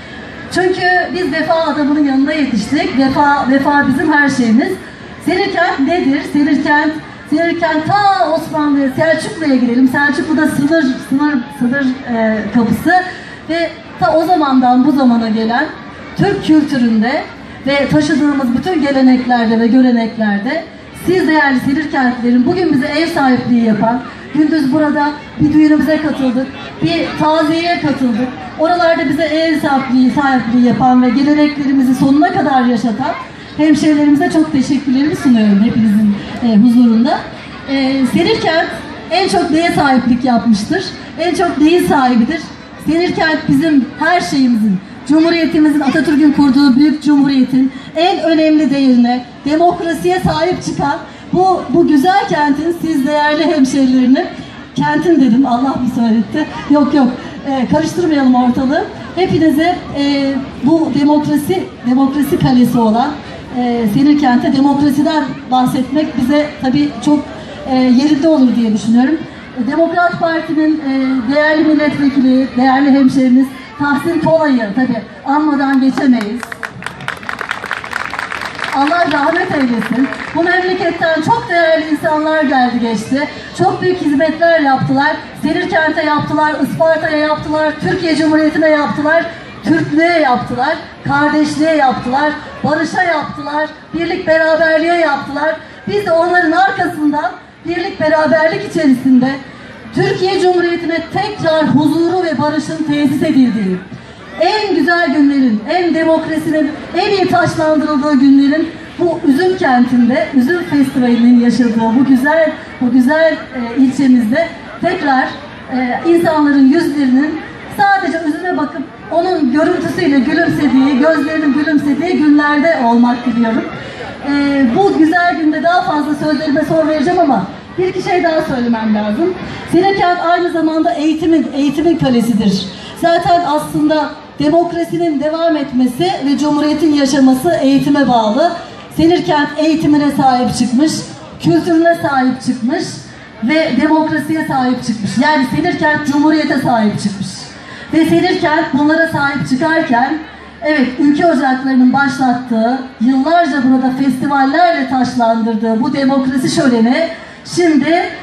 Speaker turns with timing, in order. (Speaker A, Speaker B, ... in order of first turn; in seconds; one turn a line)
Speaker A: 0.5-76.5
Speaker A: 78.7-99.4
Speaker A: 99.9-103.8
Speaker A: 104.4-123.7
Speaker A: 124.2-158.1